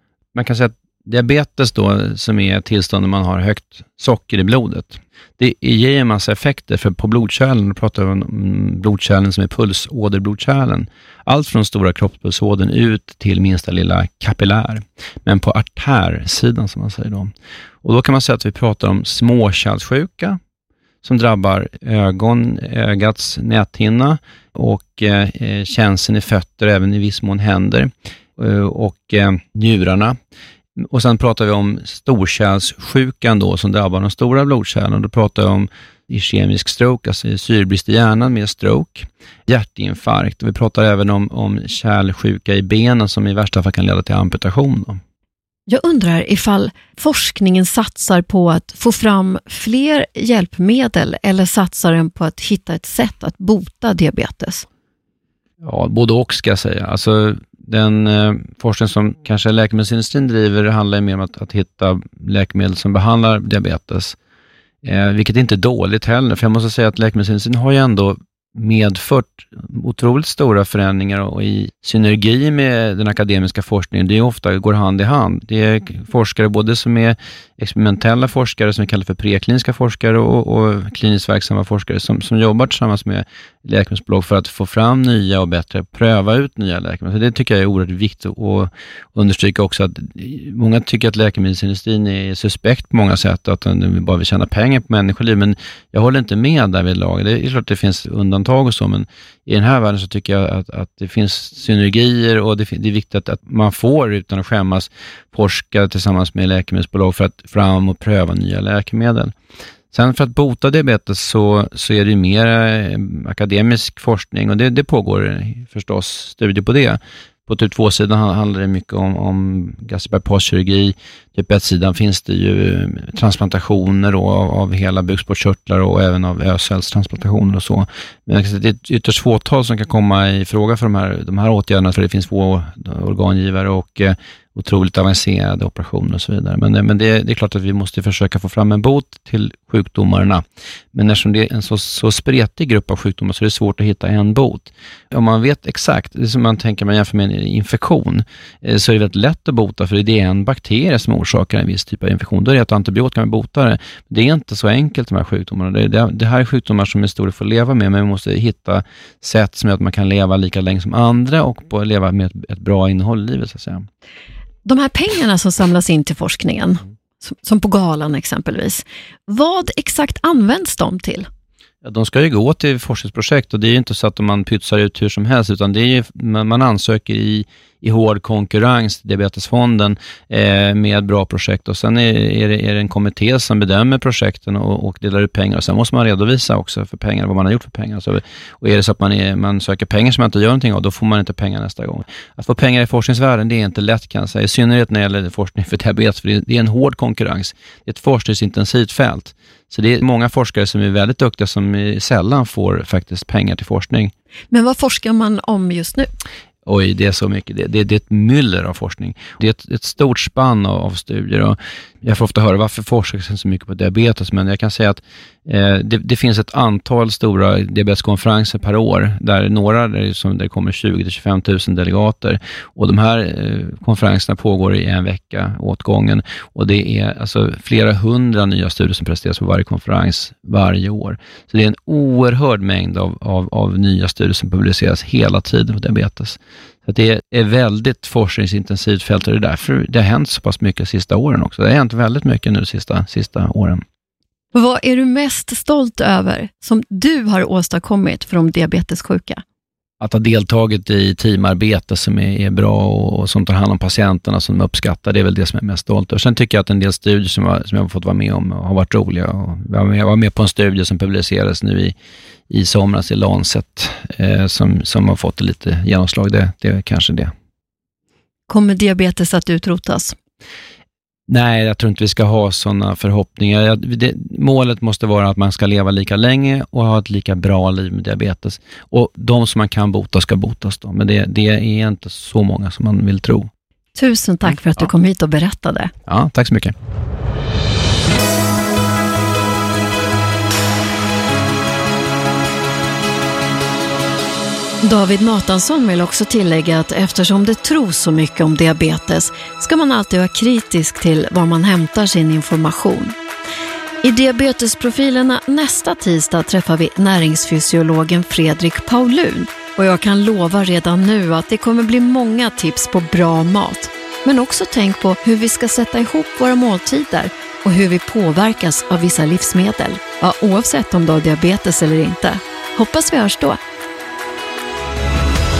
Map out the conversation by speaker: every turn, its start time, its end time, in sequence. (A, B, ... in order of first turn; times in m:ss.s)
0:00.3-0:17.3 A
0:17.8-0:20.4 A
0:21.0-0:30.2 A
0:30.8-0:45.0 A
0:45.7-0:54.6 B
0:55.6-1:04.2 A
1:04.8-1:49.3 A
1:49.9-2:43.9 A
2:44.6-2:51.3 B
2:51.8-3:24.1 A
3:24.5-3:26.1 B
3:26.6-4:03.8 A
4:04.5-4:09.4 B
4:10.0-4:21.9 A
4:22.5-4:27.3 A
4:28.5-4:30.1 B
4:31.3-4:43.5 A
4:43.9-4:45.9 B
4:46.0-4:46.7 A
4:54.8-5:03.2 B
5:04.0-5:23.6 B